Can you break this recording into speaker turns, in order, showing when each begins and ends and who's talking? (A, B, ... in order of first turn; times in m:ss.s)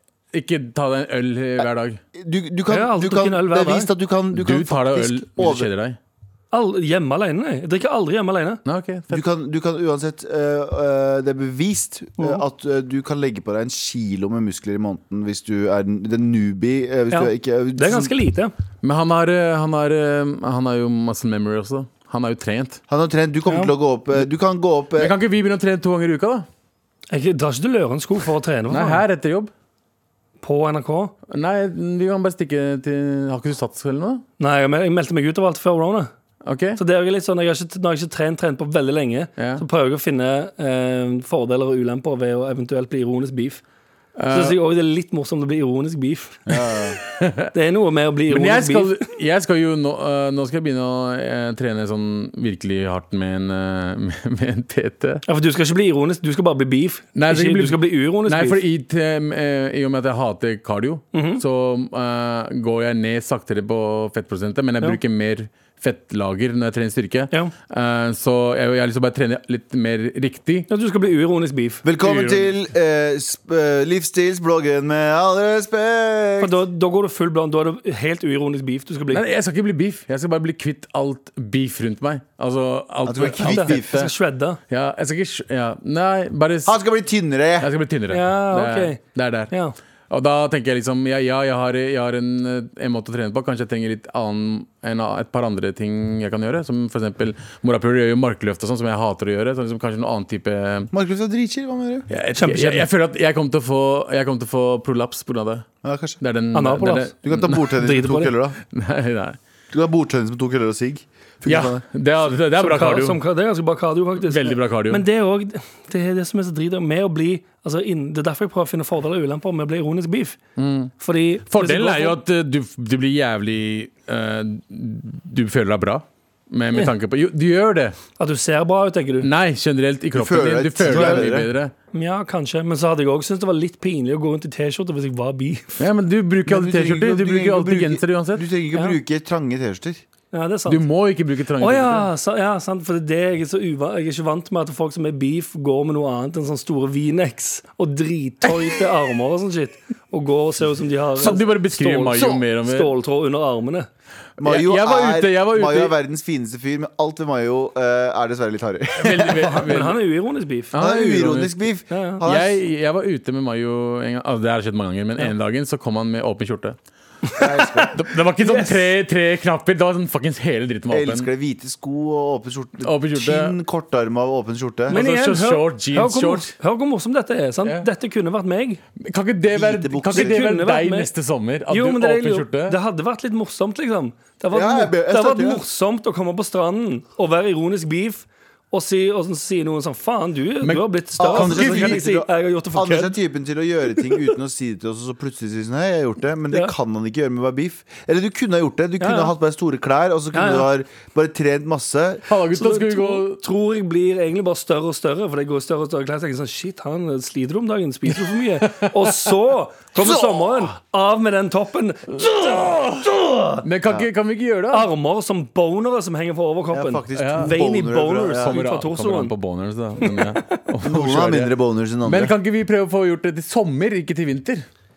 0:00.3-0:02.0 A
0:02.2-0:05.7 B
0:02.7-0:03.9 C
0:04.3-0:06.0 A
0:06.5-0:08.6 C
0:08.6-0:09.2 A
0:09.1-0:18.1 B
0:17.1-0:18.5 C
0:18.8-0:22.8 A
0:22.9-0:25.1 B
0:23.5-0:23.7 C
0:25.0-0:26.5 A
0:27.1-0:29.0 C
0:28.7-0:29.5 A
0:30.4-0:31.1 C
0:31.3-0:34.2 A
0:34.4-0:36.1 C
0:36.4-0:36.8 A
0:36.8-0:43.6 C
0:39.4-0:39.6 A
0:44.2-0:44.6 A
0:44.3-0:46.4 C
0:46.5-0:47.0 B
0:47.1-0:47.5 A
0:47.5-0:49.0 C
0:48.3-0:55.2 A
0:55.3-0:58.6 C
0:57.1-1:10.7 A
1:01.1-1:01.4 C
1:10.7-1:11.8 C
1:11.8-1:16.6 B
1:12.0-1:12.5 A
1:16.4-1:19.2 C
1:19.1-1:24.1 A
1:23.1-1:24.0 B
1:23.4-1:24.6 C
1:24.7-1:26.8 A
1:26.6-1:27.7 B
1:27.6-1:29.5 A
1:28.1-1:29.0 C
1:30.1-1:40.9 A
1:40.9-1:42.1 B
1:42.1-1:45.7 A
1:42.4-1:42.9 C
1:45.8-1:46.2 B
1:46.2-1:47.7 A
1:46.5-1:47.1 C
1:47.2-1:48.6 B
1:47.8-1:48.3 C
1:48.7-1:49.4 A
1:49.7-1:51.8 B
1:51.4-1:53.2 A
1:52.6-2:00.4 C
1:54.2-1:55.0 A
2:00.6-2:00.9 A
2:01.0-2:02.2 C
2:01.5-2:08.0 A
2:08.2-2:09.3 C
2:09.2-2:11.7 A
2:10.1-2:11.5 B
2:10.9-2:11.2 C
2:11.9-2:15.9 C
2:15.8-2:18.4 A
2:16.5-2:20.0 B
2:20.3-2:20.8 C
2:20.7-2:22.1 A
2:21.6-2:33.9 C
2:31.2-2:32.9 A
2:34.4-2:39.6 B
2:34.4-2:36.0 A
2:39.0-2:40.0 A
2:39.6-2:40.7 C
2:40.7-2:41.6 A
2:40.8-2:42.6 B
2:41.9-2:42.2 C
2:42.2-2:46.8 A
2:47.2-2:48.9 C
2:47.4-2:47.9 B
2:47.9-2:51.3 A
2:50.9-2:55.0 B
2:52.8-2:53.6 A
2:54.9-2:56.5 A
2:54.9-2:58.8 C
2:59.0-3:02.8 A
2:59.5-3:00.4 B
3:00.1-3:01.1 C
3:01.7-3:13.2 C
3:04.5-3:05.6 B
3:10.6-3:12.0 A
3:11.2-3:22.3 B
3:19.0-3:19.3 C
3:20.3-3:20.7 C
3:22.3-3:23.4 A
3:22.5-3:33.6 C
3:28.6-3:29.3 A
3:32.2-3:33.1 A
3:33.6-3:34.9 A
3:34.7-3:39.3 C
3:36.7-3:38.5 B
3:37.1-3:37.6 A
3:38.4-3:41.5 A
3:40.0-3:40.6 C
3:40.8-3:42.4 B
3:42.0-3:44.6 A